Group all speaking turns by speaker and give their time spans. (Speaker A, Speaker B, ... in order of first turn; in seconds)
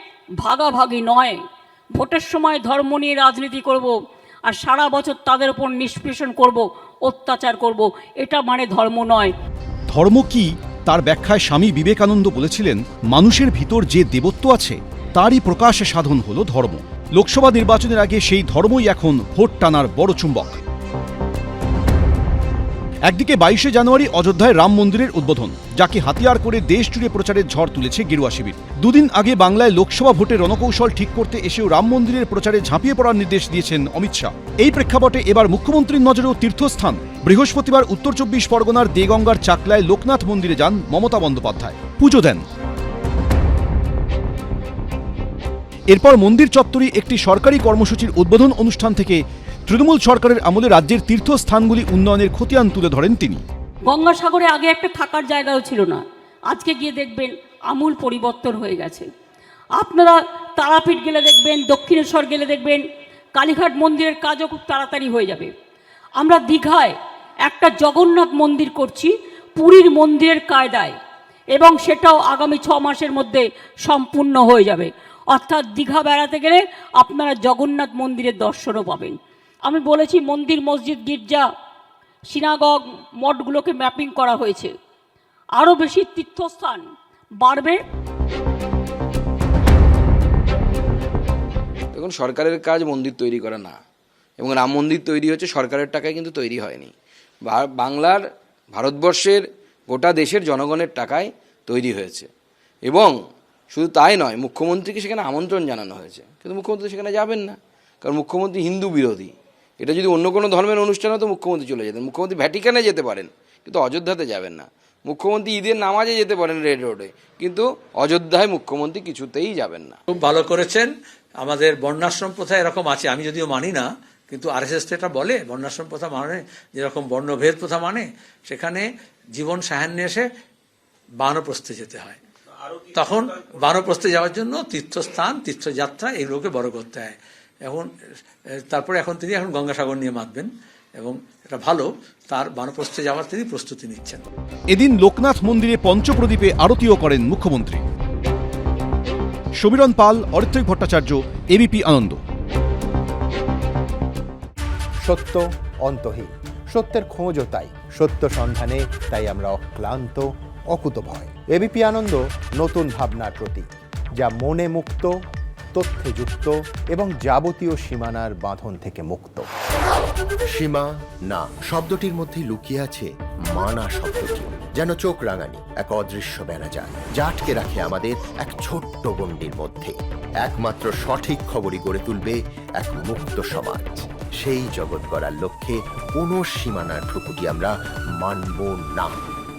Speaker A: 0.4-1.4, 1.9-3.9, 4.5-9.3, 53.9-59.1, 59.8-62.8, 63.3-65.5, 66.2-66.9, 67.5-71.0, 71.5-81.5, 82.3-84.7, 85.5-86.8, 87.4-87.8
Speaker B: 9.9-20.6, 23.1-42.4, 45.9-53.4, 144.7-147.8, 149.6-152.2
Speaker C: 91.9-93.8, 94.4-102.3, 102.8-103.2, 103.7-120.0
Speaker D: 120.1-130.3, 131.2-132.2, 132.8-144.3
Speaker E: 155.0-163.7, 164.2-165.1, 165.7-169.5
Speaker F: 170.5-189.2